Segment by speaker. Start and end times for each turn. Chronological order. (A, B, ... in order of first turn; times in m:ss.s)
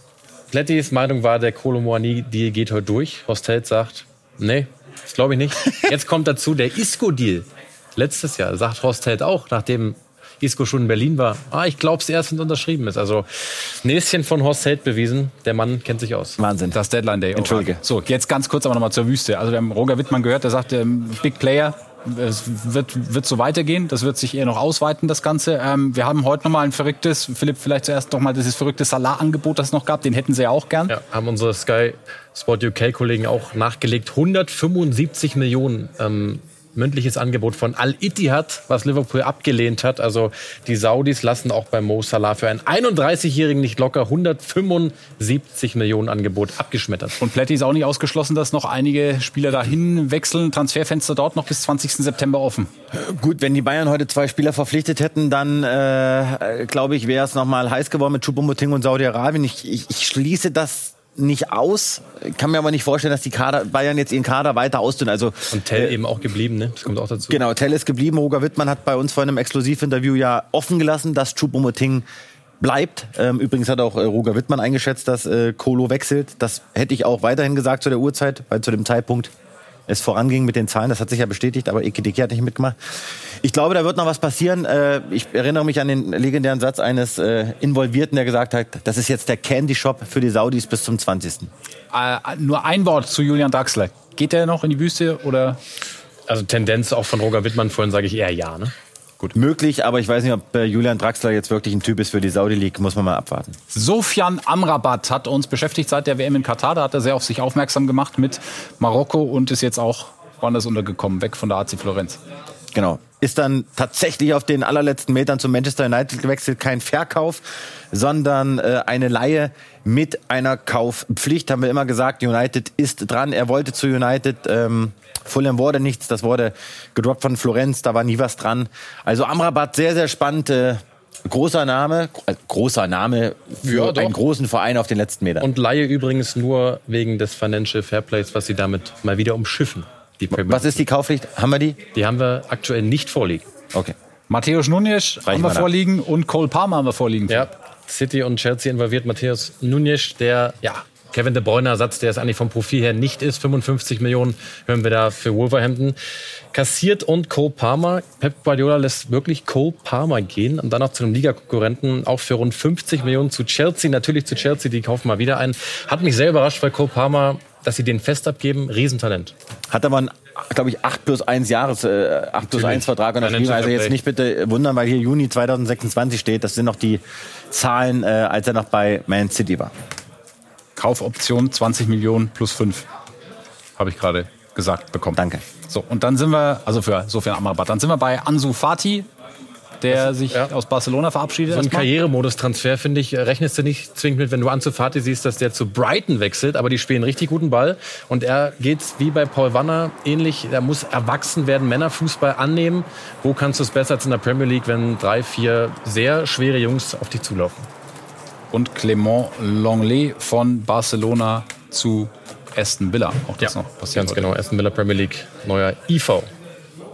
0:00.5-0:16.4 A
0:16.4-0:16.8 B
0:16.7-0:30.9 C
0:17.3-0:17.8 B
0:30.9-0:47.2 A
0:47.2-0:52.7 C
0:52.9-1:06.0 B
1:05.5-1:07.4 A
1:07.3-1:12.0 B
1:12.6-1:19.3 B
1:19.9-1:22.8 B
1:23.4-1:31.5 B
1:31.9-1:35.6 C
1:36.3-1:38.7 A
1:39.3-1:43.6 B
1:43.7-1:52.2 C
1:52.7-2:15.5 B
2:13.6-2:14.2 A
2:15.4-2:20.8 A
2:20.3-2:21.8 B
2:21.9-2:23.5 A
2:24.3-2:27.5 C
2:25.2-2:25.7 B
2:27.3-2:36.0 A
2:36.5-2:49.3 A
2:49.7-2:59.7 B
2:52.5-2:54.0 A
3:00.8-3:02.8 C
3:03.8-3:09.1 C
3:05.1-3:05.4 B
3:09.8-3:11.9 C
3:09.9-3:10.5 A
3:11.5-3:27.7 A
3:28.5-3:34.3 C
3:33.4-3:36.3 A